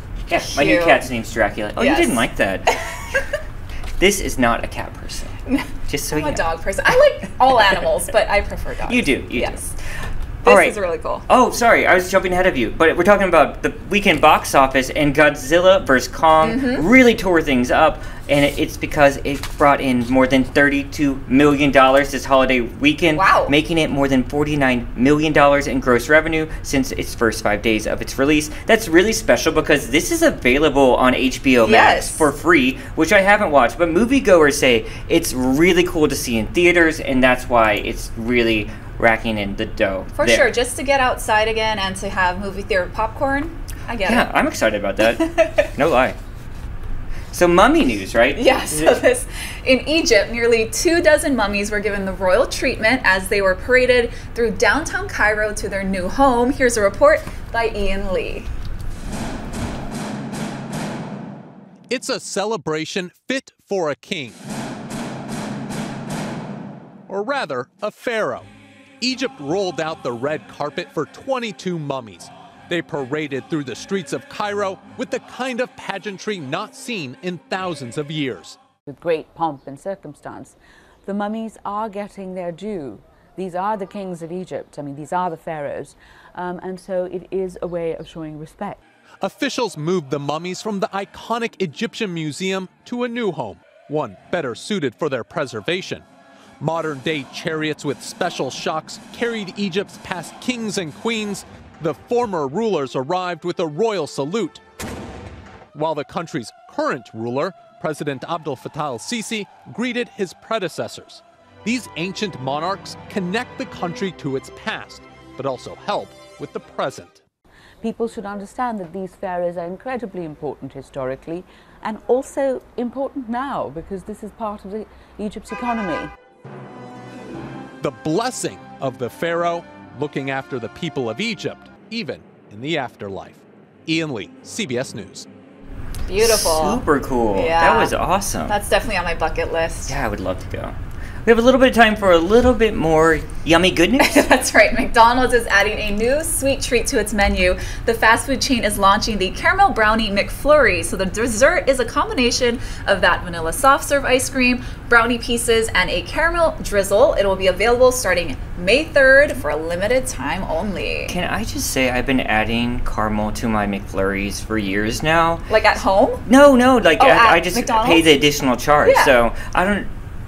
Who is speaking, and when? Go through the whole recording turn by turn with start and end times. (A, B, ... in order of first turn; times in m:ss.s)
0:00.3-0:02.8 A
0:00.4-0:01.0 B
0:01.8-0:02.2 B
0:04.0-0:05.4 A
0:05.5-0:09.7 B
0:05.9-0:06.4 A
0:08.9-0:09.6 A
0:10.4-0:11.2 B
0:10.4-0:40.5 A
0:16.4-0:16.9 B
0:23.1-0:23.5 B
0:31.6-0:32.2 B
0:40.1-0:44.3 B
0:44.0-0:46.2 A
0:45.0-0:45.7 B
0:47.3-0:49.0 A
0:48.4-0:58.5 B
1:01.9-1:04.4 C
1:07.1-1:08.5 C
1:09.0-1:18.6 C
1:18.9-1:28.8 D
1:29.2-1:36.0 C
1:36.6-1:44.6 C
1:45.7-1:57.2 C
1:57.8-2:06.1 D
2:07.8-2:15.3 C
2:16.1-2:16.8 B
2:16.2-2:18.5 A
2:17.3-2:17.9 B
2:18.5-2:19.9 B
2:19.8-2:24.2 A
2:24.0-2:41.1 B
2:41.1-2:45.5 A
2:45.5-2:46.2 B
2:46.2-2:49.9 A
2:47.0-2:48.1 B
2:48.8-2:49.2 B